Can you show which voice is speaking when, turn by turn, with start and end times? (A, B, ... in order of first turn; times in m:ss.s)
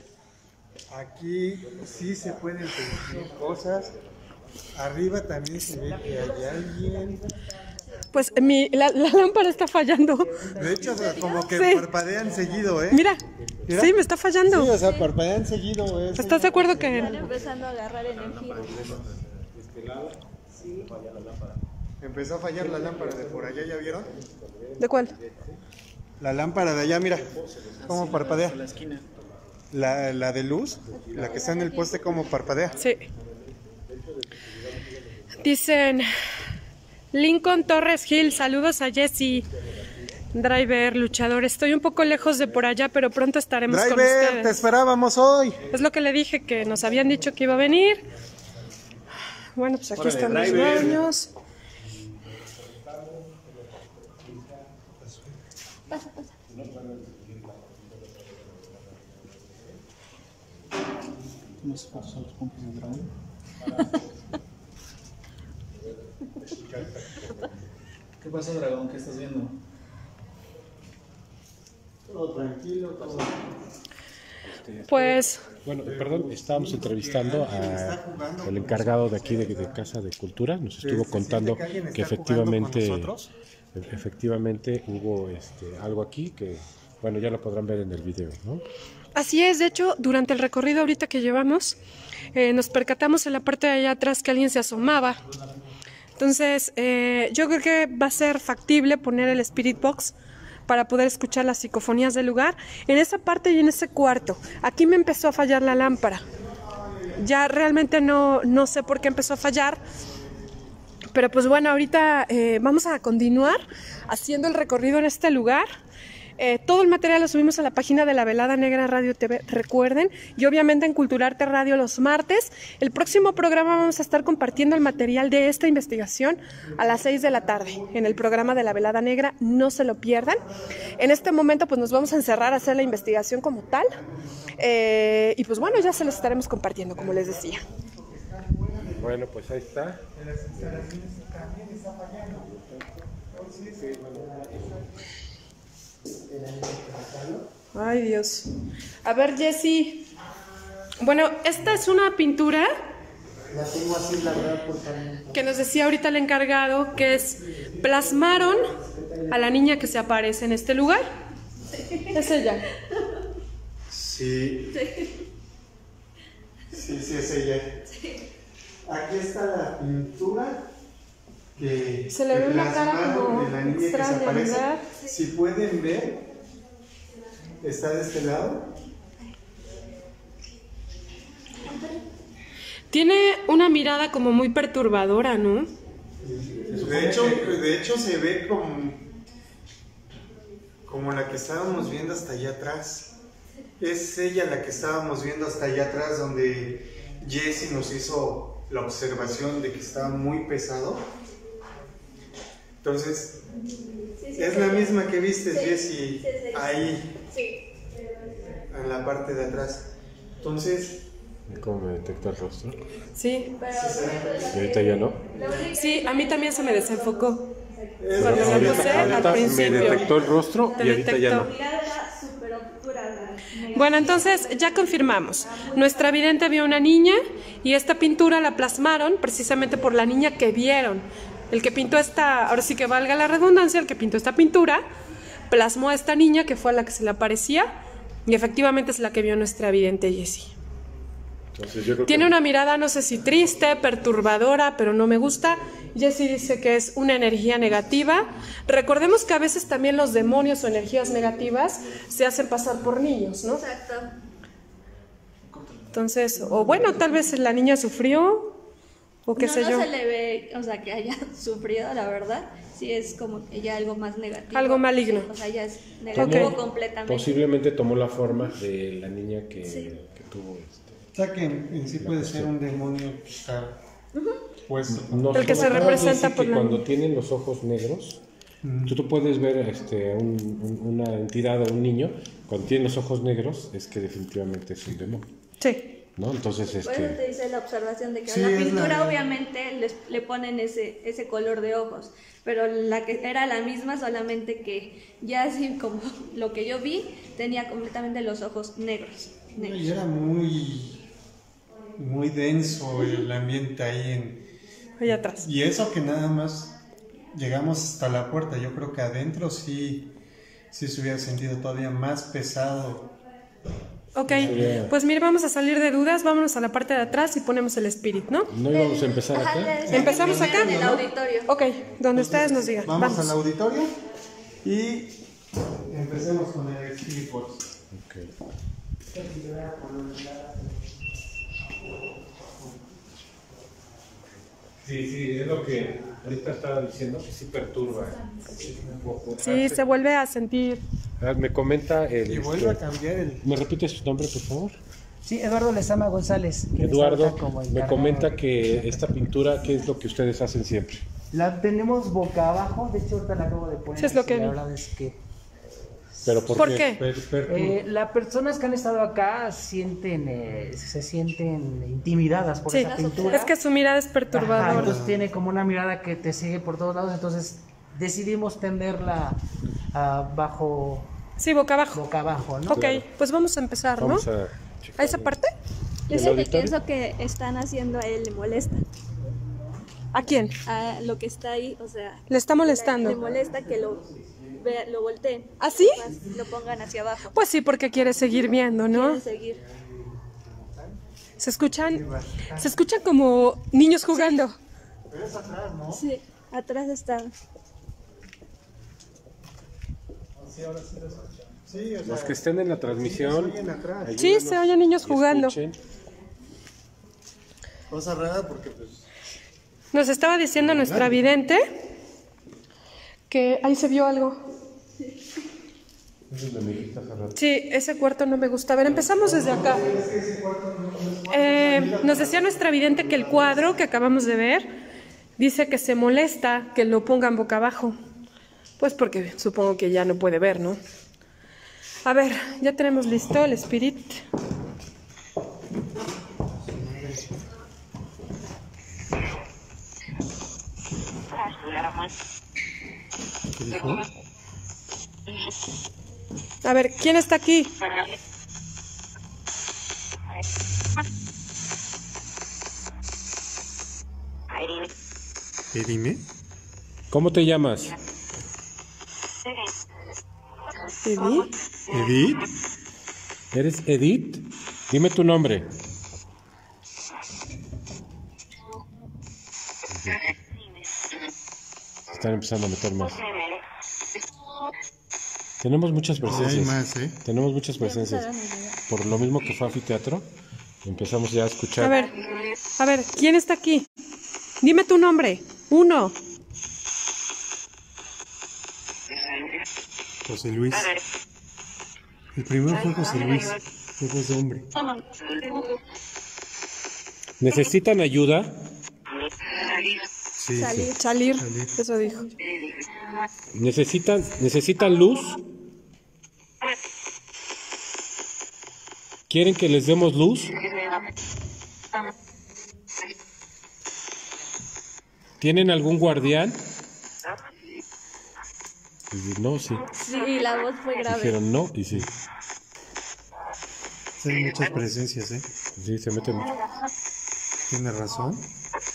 0:00.9-0:03.9 A
0:01.6-0:04.2 B
0:04.7-0:07.2 A
0:06.0-0:07.2 C
0:08.1-0:10.3 D
0:10.2-0:11.1 C
0:10.6-0:13.1 A
0:10.8-0:11.5 E
0:11.5-0:11.9 D
0:12.1-0:13.8 B
0:12.9-0:14.7 D
0:13.6-0:17.4 A
0:14.7-0:15.1 E
0:16.1-0:17.2 D
0:16.7-0:17.5 B
0:16.8-0:18.8 E
0:18.1-0:19.2 F
0:18.5-0:21.6 B
0:20.6-0:20.9 C
0:22.0-0:24.1 A
0:22.5-0:25.6 B
0:24.8-0:25.1 D
0:26.2-0:27.3 A
0:26.6-0:29.6 B
0:27.8-0:29.1 F
0:27.9-0:28.6 A
0:29.7-0:32.8 A
0:30.8-0:35.5 B
0:30.9-0:32.0 E
0:32.8-0:33.0 D
0:35.4-0:36.1 D
0:37.1-0:39.4 D
0:38.0-0:38.4 B
0:39.2-0:40.2 B
0:40.3-0:44.6 D
0:42.0-0:42.7 B
0:43.7-0:45.6 A
0:45.6-0:45.9 B
0:45.7-0:48.0 D
0:46.5-0:49.0 B
0:49.6-0:51.3 D
0:50.0-0:51.0 F
0:50.2-0:50.9 B
0:50.4-0:50.9 A
0:51.8-0:54.8 B
0:55.0-0:55.4 A
0:56.5-0:59.8 B
1:00.8-1:03.0 B
1:01.6-1:03.1 F
1:03.6-1:04.4 B
1:05.8-1:07.7 B
1:08.2-1:09.5 F
1:12.1-1:13.4 A
1:13.0-1:13.3 B
1:14.4-1:23.1 B
1:14.9-1:15.4 D
1:15.8-1:19.8 A
1:20.8-1:23.3 A
1:23.7-1:28.6 B
1:29.1-1:31.8 D
1:32.3-1:35.2 D
1:36.2-1:40.1 D
1:40.7-1:46.2 D
1:46.3-1:47.3 A
1:47.2-1:49.8 D
1:50.0-1:50.5 A
1:51.1-1:55.7 D
1:56.4-2:10.4 D
2:06.6-2:08.8 A
2:10.2-2:11.2 A
2:11.0-2:14.0 D
2:13.3-2:14.7 A
2:14.6-2:17.6 D
2:15.5-2:19.2 A
2:19.0-2:20.0 B
2:20.1-2:22.5 A
2:20.5-2:20.9 B
2:22.4-2:24.8 B
2:23.3-2:24.0 A
2:26.3-2:27.4 C
2:27.7-2:28.5 D
2:29.0-2:30.0 D
2:31.0-2:32.7 D
2:33.5-2:35.5 A
2:35.3-2:38.7 D
2:37.4-2:40.0 F
2:39.3-2:41.0 D
2:41.7-2:42.2 E
2:42.1-2:42.6 D
2:43.9-2:44.7 A
2:44.7-2:45.1 E
2:46.7-2:47.8 A
2:47.9-2:48.2 E
2:48.8-2:50.6 A
2:51.6-2:56.2 A
2:52.1-2:54.8 D
2:57.6-2:58.7 A
3:01.6-3:02.0 E
3:02.9-3:05.7 D
3:06.6-3:07.6 B
3:06.8-3:09.1 A
3:10.8-3:13.1 A
3:13.8-3:21.1 A
3:22.8-3:23.4 A
3:24.2-3:27.6 E
3:24.4-3:27.1 A
3:28.6-3:29.9 A
3:30.4-3:31.0 A
3:31.5-3:32.8 B
3:33.2-3:33.6 D
3:33.6-3:39.4 E
3:33.7-3:34.8 A
3:34.5-3:35.2 B
3:35.3-3:35.6 A
3:35.7-3:37.4 D
3:38.0-3:40.4 A
3:38.2-3:41.5 B
3:38.2-3:40.1 D
3:40.6-3:46.2 E
3:40.7-3:41.5 D
3:43.7-3:54.8 D
3:55.5-3:57.7 D
3:58.2-4:00.5 D
4:01.5-4:02.3 B
4:02.1-4:13.6 D
4:07.6-4:08.4 F
4:11.0-4:12.0 F
4:13.4-4:14.1 E
4:15.4-4:17.3 F
4:15.9-4:18.5 D
4:19.2-4:19.9 D
4:19.4-4:27.4 E
4:24.5-4:25.3 D
4:26.1-4:26.5 D
4:26.1-4:31.1 B
4:31.1-4:33.8 A
4:32.0-4:32.5 B
4:34.1-4:34.4 E
4:34.7-4:36.2 A
4:34.9-4:38.2 B
4:35.3-4:36.8 D
4:38.6-4:39.0 A
4:38.9-4:45.3 B
4:46.2-4:47.2 B
4:46.8-4:59.9 E
4:48.2-4:49.2 A
4:59.6-5:01.0 A
5:02.0-5:04.4 A
5:03.0-5:03.2 E
5:05.0-5:05.5 D
5:05.1-5:06.7 A
5:07.3-5:10.1 A
5:10.7-5:13.1 A
5:14.1-5:18.5 D
5:14.2-5:14.8 A
5:14.4-5:14.9 B
5:18.5-5:19.8 B
5:18.7-5:21.5 E
5:19.8-5:21.1 A
5:19.9-5:21.0 D
5:21.5-5:23.3 D
5:22.1-5:23.9 A
5:24.6-5:25.2 A
5:25.7-5:27.6 A
5:27.9-5:28.3 B
5:29.2-5:30.6 A
5:34.8-5:39.8 B
5:39.4-5:40.8 D
5:41.2-5:42.8 B
5:42.2-5:43.4 A
5:43.4-5:44.8 B
5:45.2-5:49.1 C
5:46.8-5:51.0 B
5:51.3-5:55.2 C
5:54.0-5:54.6 D
5:56.2-5:57.8 B
5:56.5-5:57.2 A
5:56.6-5:57.0 D
5:57.4-6:03.5 C
6:02.7-6:04.9 D
6:02.8-6:03.5 E
6:04.3-6:11.1 C
6:04.6-6:05.2 A
6:11.4-6:12.0 D
6:11.9-6:12.8 C
6:12.7-6:14.2 D
6:12.7-6:13.0 B
6:14.0-6:15.4 B
6:15.0-6:15.5 D
6:16.1-6:16.7 B
6:16.1-6:18.8 E
6:20.1-6:20.5 D
6:20.6-6:24.0 E
6:22.3-6:23.2 D
6:23.0-6:24.1 A
6:24.6-6:27.4 E
6:25.6-6:26.0 D
6:26.1-6:26.5 A
6:27.3-6:29.2 D
6:28.2-6:29.6 E
6:29.5-6:31.0 A
6:31.4-6:32.0 D
6:31.8-6:32.8 A
6:32.6-6:34.6 D
6:34.1-6:34.4 E
6:35.1-6:36.0 A
6:35.9-6:37.3 E
6:40.3-6:41.6 F
6:41.7-6:44.2 A
6:42.0-6:45.8 B
6:44.2-6:45.6 D
6:47.9-6:49.1 A
6:49.9-6:51.6 D
6:50.6-6:51.2 A
6:53.3-6:54.4 D
6:56.3-6:57.4 B
6:57.4-6:59.8 D
6:59.2-7:04.0 A
6:59.2-6:59.7 B
7:01.3-7:04.7 D
7:05.4-7:08.0 D
7:08.8-7:10.8 D
7:12.0-7:14.2 D
7:16.5-7:17.3 A
7:23.5-7:24.0 A
7:26.6-7:27.7 D
7:35.7-7:36.2 A
7:37.1-7:38.0 B
7:41.0-7:41.5 D
7:41.9-7:42.4 A
7:43.5-7:45.7 B
7:49.9-7:50.3 B
7:52.1-7:53.2 B
7:55.6-7:58.3 B
7:56.2-7:57.2 A
7:57.8-7:58.8 E
7:58.9-8:00.3 B
8:00.8-8:02.0 B
8:01.8-8:02.1 D
8:02.8-8:03.8 D
8:04.6-8:06.1 D
8:10.2-8:10.9 A
8:12.3-8:14.7 A
8:17.4-8:18.6 B
8:20.4-8:21.7 A
8:20.6-8:21.0 E
8:21.0-8:22.3 D
8:22.0-8:22.3 E
8:23.5-8:25.4 B
8:29.3-8:30.5 B
8:35.4-8:36.6 B
8:39.1-8:39.8 B
8:40.0-8:41.4 E
8:41.0-8:42.1 B
8:44.2-8:45.4 A
8:45.8-8:46.5 B
8:47.7-8:48.4 A